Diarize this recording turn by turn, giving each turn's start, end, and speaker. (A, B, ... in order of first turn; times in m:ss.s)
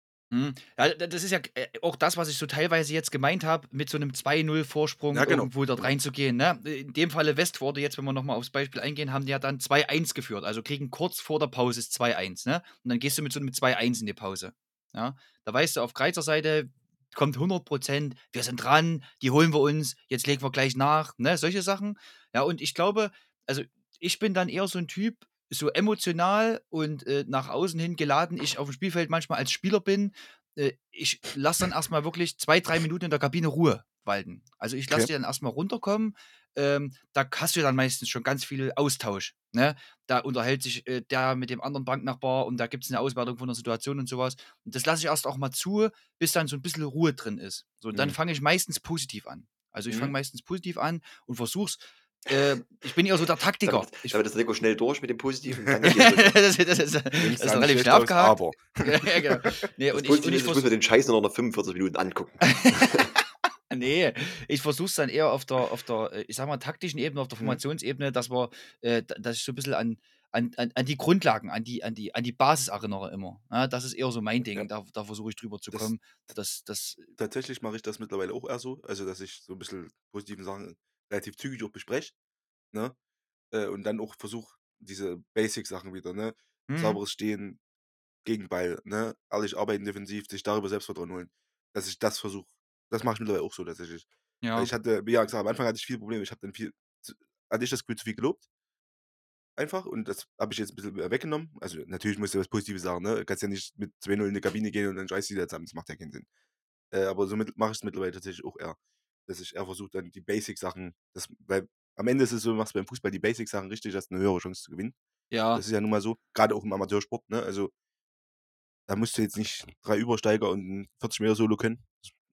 0:00.3-0:54.2 A
0:05.1-0:05.9 B
0:49.9-0:50.2 B
0:52.3-0:52.9 C
0:53.6-0:56.4 C
0:55.8-1:00.7 A
0:57.2-0:59.2 B
0:59.9-1:03.1 C
1:02.4-1:17.2 A
1:17.2-1:22.1 B
1:23.5-1:27.6 B
1:26.7-1:27.0 A
1:28.2-1:38.5 B
1:34.4-1:34.7 A
1:39.6-1:46.3 B
1:46.9-1:55.0 B
1:55.3-1:55.6 A
1:55.6-1:57.7 B
1:58.9-2:02.0 B